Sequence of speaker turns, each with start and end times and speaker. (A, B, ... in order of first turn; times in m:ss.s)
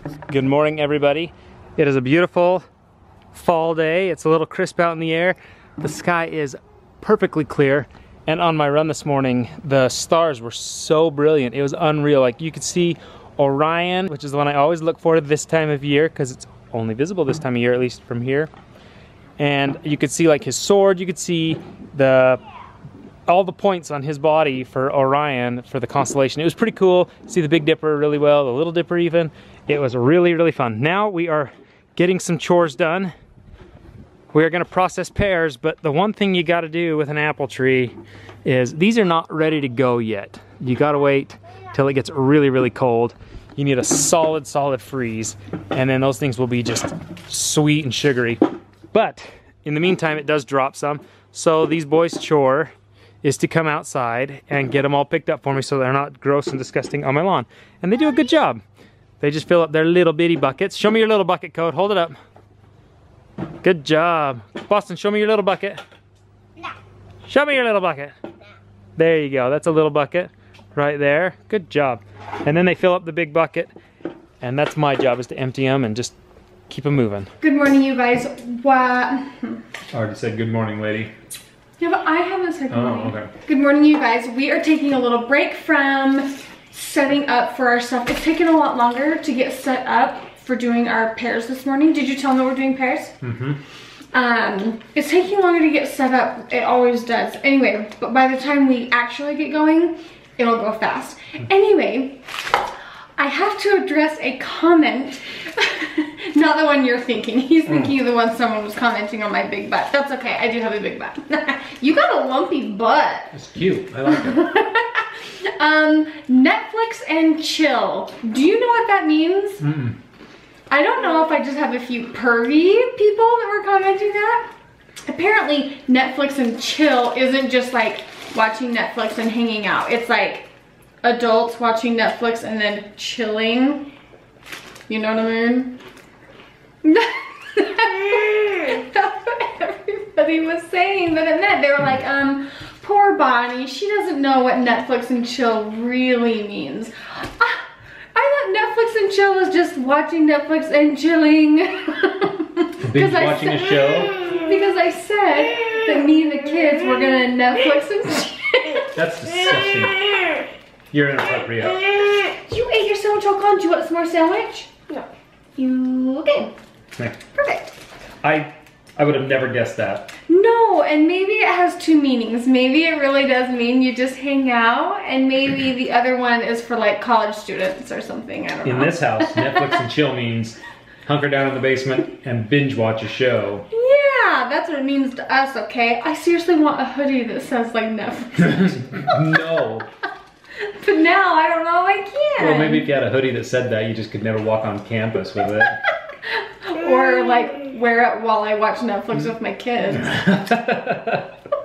0:00.3-0:02.6 A
0:03.3-0:18.5 A
0:19.4-0:22.4 A
0:23.3-0:33.1 A
0:34.3-0:48.4 A
0:48.9-0:58.6 A
0:59.2-1:02.2 A
1:03.6-1:05.8 A
1:07.3-1:08.1 A
1:09.0-1:13.7 A
1:14.4-1:16.2 A
1:16.7-1:17.3 A
1:17.4-1:19.6 B
1:19.9-1:21.1 A
1:21.8-1:33.1 B
1:22.7-1:23.3 A
1:33.2-1:33.6 A
1:34.1-1:42.2 B
1:43.2-1:53.3 B
1:47.7-1:47.9 A
1:53.3-1:54.5 A
1:54.1-1:59.6 B
1:59.6-2:00.0 A
2:00.7-2:04.5 B
2:05.1-2:10.5 B
2:11.0-2:13.9 B
2:14.9-2:15.8 B
2:16.8-2:39.0 B
2:32.8-2:34.2 A
2:39.0-2:40.1 A
2:40.9-2:41.8 A
2:42.3-2:44.9 B
2:45.6-2:46.5 B
2:48.2-2:50.1 A
2:50.3-2:59.9 B
2:58.6-3:03.7 A
3:03.7-3:09.2 B
3:08.4-3:09.9 A
3:10.6-3:12.9 B
3:12.4-3:15.8 A
3:16.6-3:20.2 B
3:20.1-3:21.3 A